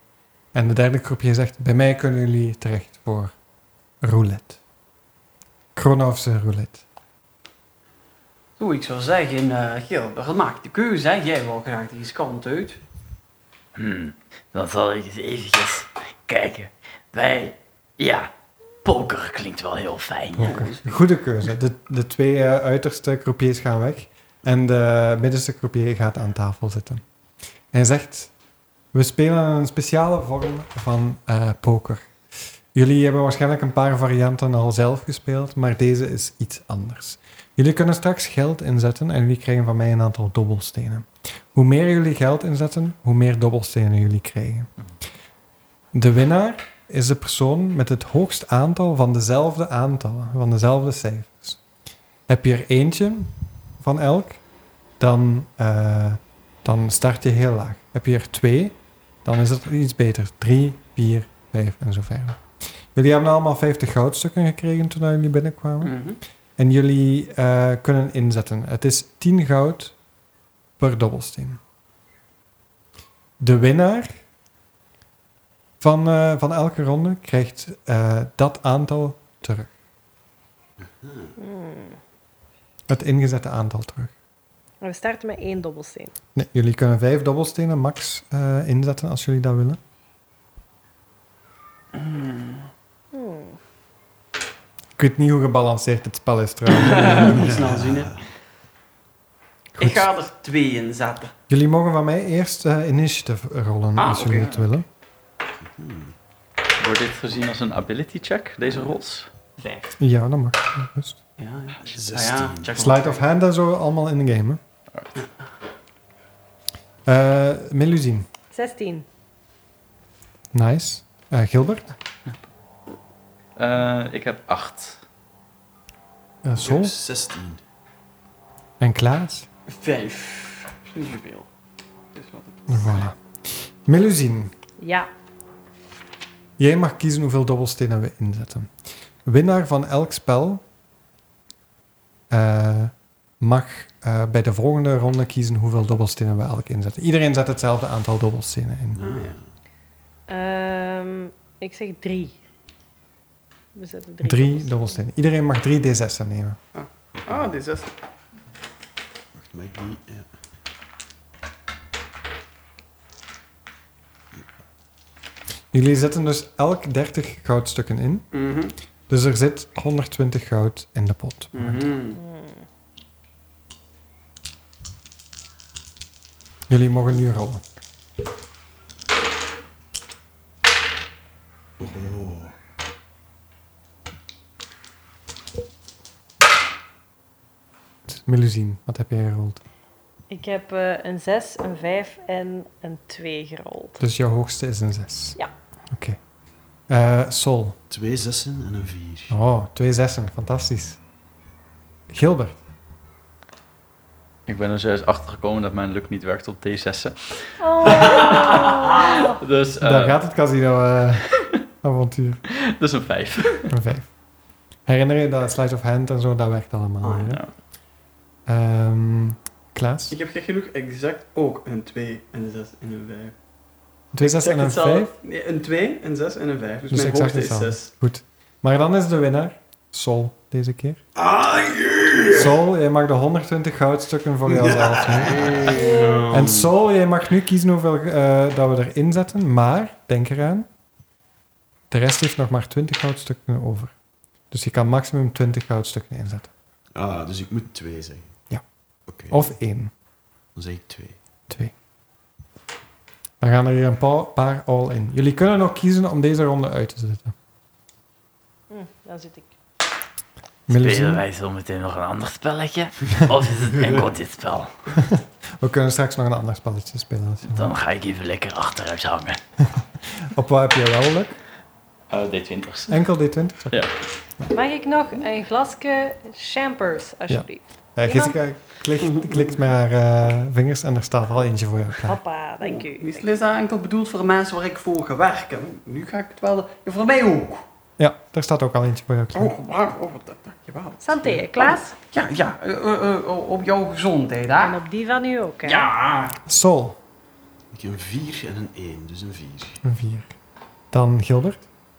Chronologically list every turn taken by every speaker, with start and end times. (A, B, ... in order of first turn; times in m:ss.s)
0:00.5-0:03.3 A
0:04.0-0:04.6 A
0:05.8-0:06.8 A
0:08.6-0:12.8 B
0:13.8-0:18.3 C
0:18.8-0:20.6 C
0:20.4-0:27.0 A
0:20.4-0:21.0 B
0:27.7-0:28.3 A
0:28.9-0:32.1 A
0:32.7-0:44.7 A
0:45.9-0:51.6 A
0:52.3-0:54.4 A
0:55.0-1:02.4 A
1:02.9-1:06.0 A
1:05.8-1:06.2 B
1:06.6-1:10.0 A
1:10.8-1:11.6 A
1:13.4-1:14.2 A
1:15.8-1:19.7 A
1:20.8-1:21.3 D
1:21.4-1:22.0 E
1:22.9-1:24.1 A
1:24.8-1:26.1 E
1:26.4-1:29.8 A
1:31.9-1:32.7 B
1:33.1-1:33.6 E
1:35.0-1:37.6 A
1:36.7-1:38.2 B
1:37.3-1:38.2 D
1:39.8-1:40.1 A
1:39.8-1:41.3 B
1:41.5-1:44.9 A
1:44.0-1:44.7 B
1:45.6-1:46.1 D
1:46.8-1:49.3 C
1:49.6-1:49.9 B
1:50.0-1:51.2 A
1:51.4-1:53.2 B
1:51.8-1:52.8 D
1:52.8-1:54.6 A
1:57.1-1:58.3 A
1:58.5-1:59.1 E
2:00.5-2:02.0 A
2:03.6-2:05.0 C
2:06.4-2:07.0 A
2:06.6-2:07.6 D
2:08.8-2:09.5 A
2:09.7-2:11.5 B
2:12.1-2:13.0 B
2:12.7-2:14.5 A
2:14.8-2:15.1 E
2:16.6-2:18.7 A
2:19.2-2:20.6 A
2:22.3-2:29.0 A
2:29.0-2:29.4 D
2:29.0-2:29.4 B
2:30.3-2:32.4 E
2:33.8-2:34.9 E
2:34.2-2:36.6 A
2:36.7-2:37.9 B
2:39.3-2:40.3 D
2:45.7-2:48.3 A
2:48.3-2:48.7 B
2:49.1-2:51.8 A
2:51.5-2:52.2 B
2:52.2-2:52.6 E
2:56.7-2:57.6 A
3:01.8-3:02.5 D
3:08.1-3:09.6 A
3:10.3-3:14.0 E
3:14.0-3:15.4 A
3:15.9-3:16.2 A
3:16.9-3:17.8 A
3:17.9-3:19.4 D
3:19.3-3:21.0 A
3:22.1-3:22.6 A
3:24.5-3:30.2 C
3:27.6-3:29.4 E
3:29.8-3:32.4 A
3:32.6-3:33.7 C
3:33.7-3:34.1 A
3:34.9-3:37.4 A
3:37.0-3:37.4 B
3:38.5-3:40.2 A
3:40.1-3:43.3 B
3:44.1-3:45.1 A
3:44.2-3:47.9 B
3:46.9-3:51.0 A
3:51.2-3:52.6 D
3:52.3-3:55.8 A
3:54.5-3:56.7 D
3:55.6-3:56.0 B
3:55.8-3:56.2 E
3:56.3-4:00.7 A
4:01.9-4:03.9 A
4:04.5-4:06.5 A
4:06.9-4:08.3 D
4:09.1-4:09.5 D
4:09.3-4:09.9 A
4:10.6-4:11.2 D
4:13.4-4:17.3 A
4:18.7-4:19.5 E
4:20.7-4:21.2 A
4:20.7-4:24.8 C
4:23.6-4:24.1 D
4:24.9-4:27.7 A
4:27.5-4:29.4 C
4:30.2-4:31.4 A
4:32.1-4:33.0 C
4:32.9-4:33.8 A
4:34.5-4:38.4 E
4:37.3-4:42.2 A
4:39.0-4:39.6 B
4:42.0-4:43.3 E
4:42.6-4:47.6 B
4:48.0-4:49.6 A
4:49.3-4:54.8 B
4:51.0-4:52.0 E
4:54.6-4:55.9 E
4:55.6-4:56.4 B
4:56.5-4:57.0 A
4:57.7-4:59.8 D
4:59.8-5:00.3 A
5:00.9-5:01.6 A